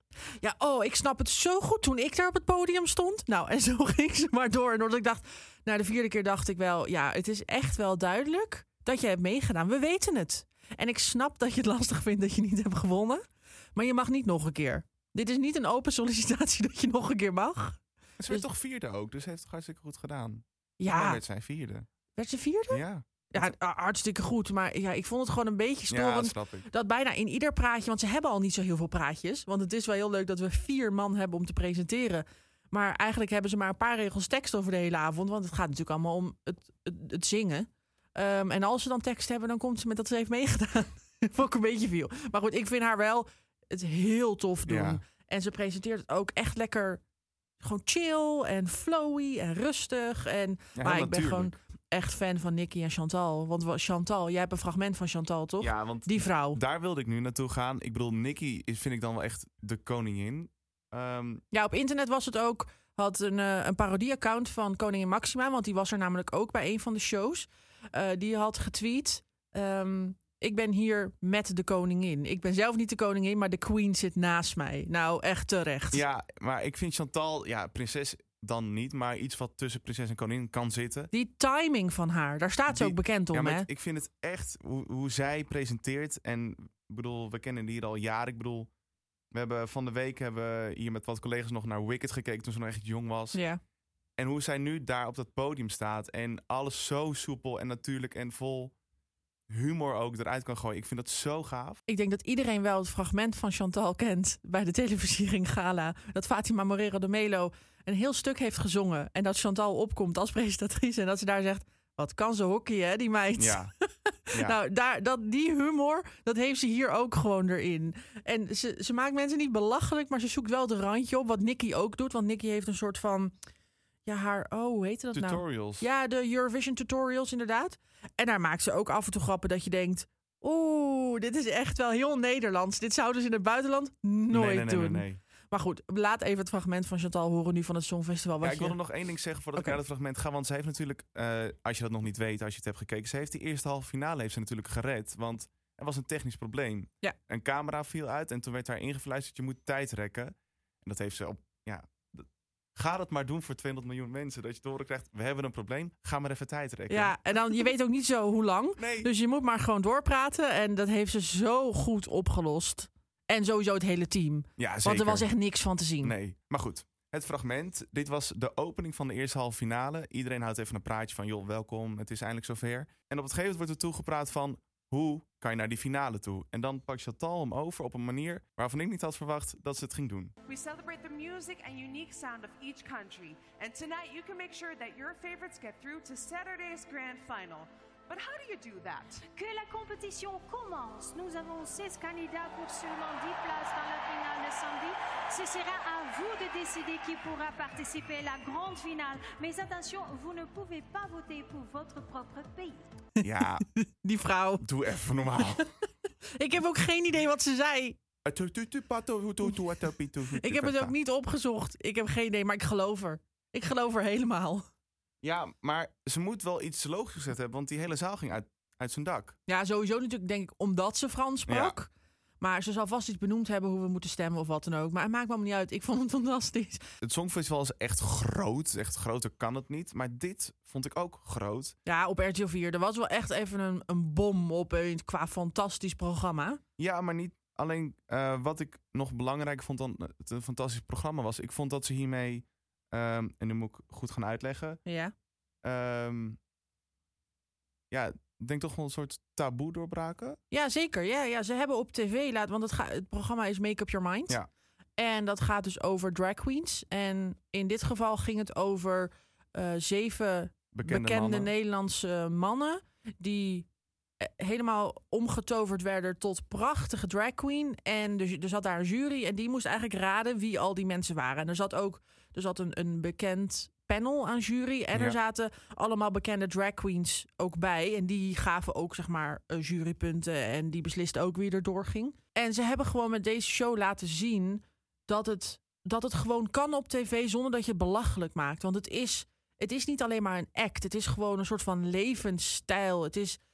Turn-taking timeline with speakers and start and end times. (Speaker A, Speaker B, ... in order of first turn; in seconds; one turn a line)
Speaker A: 0.4-18.4
Speaker B: 18.2-21.9
Speaker A: 20.8-21.2
Speaker A: 22.1-47.0
Speaker B: 22.7-23.5
Speaker B: 25.9-26.7
Speaker B: 44.7-45.0
Speaker A: 47.6-56.6
Speaker B: 50.8-51.5
Speaker B: 55.6-61.4
Speaker A: 61.5-76.0
Speaker B: 75.9-81.1
Speaker A: 81.1-83.7
Speaker B: 82.7-88.7
Speaker B: 89.3-93.4
Speaker A: 93.3-93.6
Speaker B: 94.2-98.7
Speaker B: 99.5-101.8
Speaker A: 101.9-123.3
Speaker B: 113.4-113.7
Speaker A: 124.0-138.8
Speaker B: 125.1-125.9
Speaker B: 134.3-135.2
Speaker B: 138.4-157.2
Speaker A: 156.9-166.2
Speaker B: 158.8-159.1
Speaker B: 164.6-165.3
Speaker B: 166.0-180.3
Speaker C: 180.5-189.2
Speaker D: 189.3-202.9
Speaker A: 203.2-204.6
Speaker B: 203.2-203.6
Speaker B: 204.6-205.7
Speaker A: 205.4-205.6
Speaker A: 206.3-208.0
Speaker B: 208.2-210.9
Speaker A: 210.3-214.7
Speaker B: 215.2-219.4
Speaker A: 219.5-226.8
Speaker B: 221.5-221.7
Speaker B: 227.0-231.7
Speaker A: 231.8-236.6
Speaker B: 236.8-244.8
Speaker A: 244.8-245.1
Speaker B: 245.6-246.4
Speaker B: 247.9-250.4
Speaker A: 250.5-254.4
Speaker A: 255.0-263.7
Speaker B: 260.7-261.5
Speaker A: 264.2-293.4